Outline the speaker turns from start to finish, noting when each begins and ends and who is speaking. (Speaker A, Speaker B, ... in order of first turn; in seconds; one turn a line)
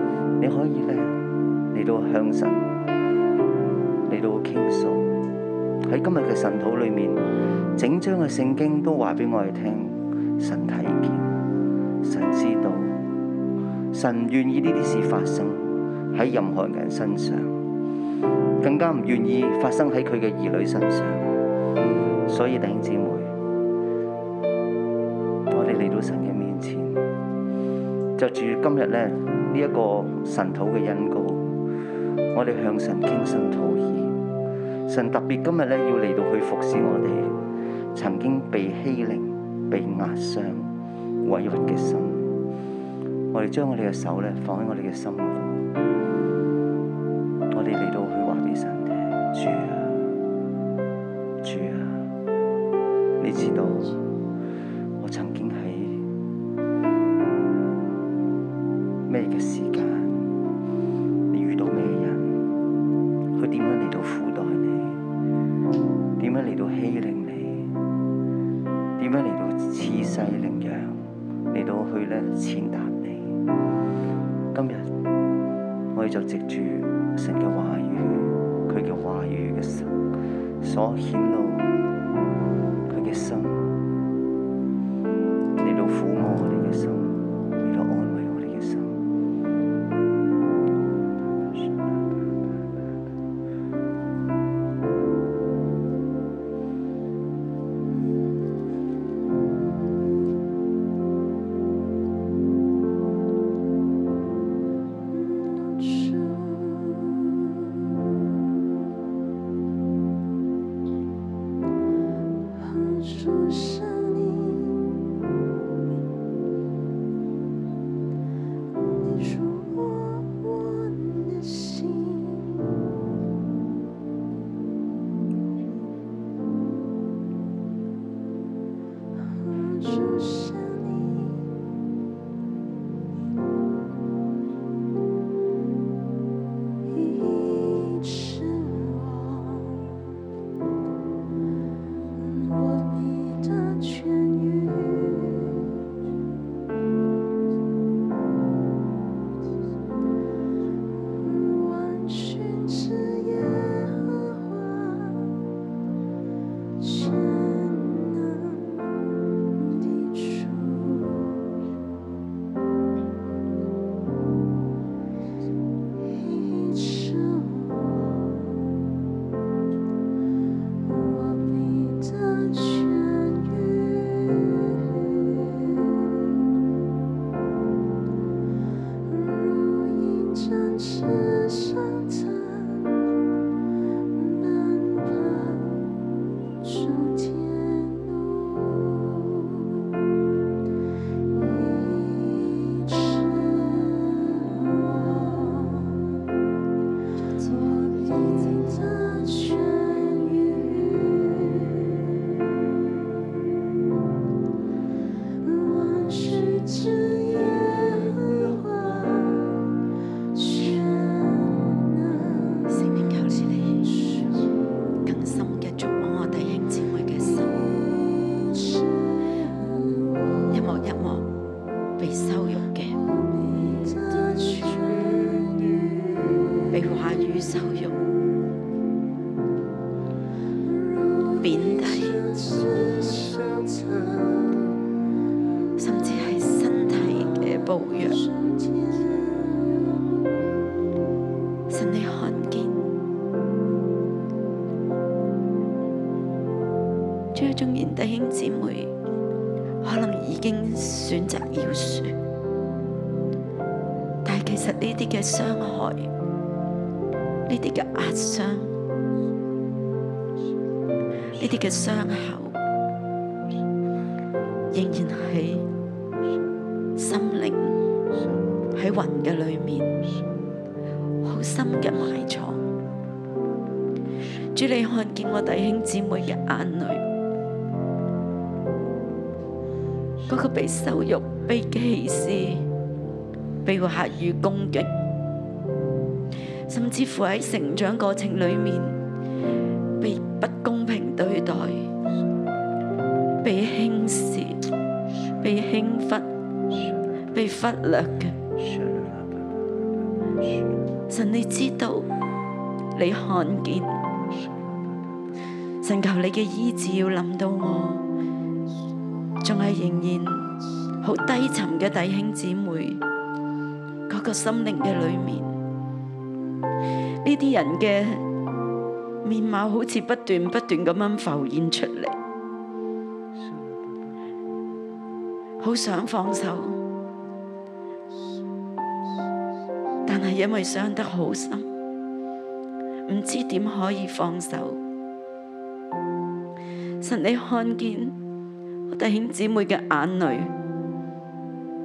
Speaker A: 0.4-1.2
Speaker A: 1.7-2.7
Speaker A: 4.0-5.1
Speaker A: 5.8-11.3
Speaker A: 12.0-13.0
Speaker A: 13.9-17.5
Speaker A: 18.6-21.3
Speaker A: 22.3-23.3
Speaker A: 25.5-27.0
Speaker A: 28.2-31.5
Speaker A: 32.3-34.1
Speaker A: 34.9-37.3
Speaker A: 37.9-40.7
Speaker A: 41.2-42.3
Speaker A: 43.3-45.7
Speaker A: 47.5-50.1
Speaker A: 51.4-52.1
Speaker A: 53.2-54.0
Speaker A: 55.0-56.0
Speaker A: 59.1-60.3
Speaker A: 61.3-62.4
Speaker A: 63.3-65.0
Speaker A: 66.2-67.7
Speaker A: 69.0-73.4
Speaker A: 74.5-74.9
Speaker A: 75.9-80.0
Speaker A: 80.6-81.7
Speaker A: 82.9-83.7
Speaker A: 85.5-89.0
Speaker A: 91.1-92.6
Speaker B: 105.1-107.1
Speaker B: 112.5-114.8
Speaker B: 118.8-122.6
Speaker B: 129.3-131.4
Speaker B: 136.9-139.9
Speaker B: 142.2-145.5
Speaker B: 151.2-155.2
Speaker B: 156.8-158.8
Speaker B: 159.6-161.3
Speaker B: 166.1-168.1
Speaker B: 170.8-174.6
Speaker B: 179.1-182.8
Speaker B: 184.1-185.8
Speaker B: 186.6-189.5
Speaker B: 191.3-194.1
Speaker B: 194.6-195.9
Speaker B: 197.4-201.4
Speaker B: 205.4-209.5
Speaker B: 210.3-211.7
Speaker C: 212.7-213.9
Speaker C: 215.0-217.7
Speaker B: 218.2-218.8
Speaker C: 220.5-221.3
Speaker C: 222.0-223.0
Speaker B: 222.9-226.1
Speaker C: 226.7-228.0
Speaker B: 230.7-234.6
Speaker C: 231.4-232.2
Speaker C: 235.8-238.2
Speaker B: 238.2-239.8
Speaker C: 241.7-242.9
Speaker C: 247.3-248.9
Speaker C: 249.8-252.1
Speaker C: 254.2-256.1
Speaker C: 257.5-258.7
Speaker C: 261.3-262.6
Speaker C: 264.7-265.6
Speaker C: 267.0-267.7
Speaker C: 268.7-270.0
Speaker C: 271.2-272.7
Speaker C: 274.5-277.0
Speaker C: 280.3-282.7
Speaker C: 283.6-284.9
Speaker C: 286.7-289.0
Speaker C: 290.0-291.9
Speaker C: 293.4-294.6
Speaker C: 295.4-296.2
Speaker C: 297.3-298.4
Speaker A: 298.6-299.4
Speaker C: 301.1-302.1
Speaker C: 302.9-304.0
Speaker C: 305.8-308.0
Speaker C: 309.4-310.5
Speaker C: 311.0-313.0
Speaker C: 314.1-315.5
Speaker C: 317.2-318.2
Speaker C: 319.2-322.1
Speaker C: 325.6-326.8
Speaker C: 330.1-331.6
Speaker C: 333.1-334.8
Speaker C: 337.0-338.1
Speaker C: 338.9-340.5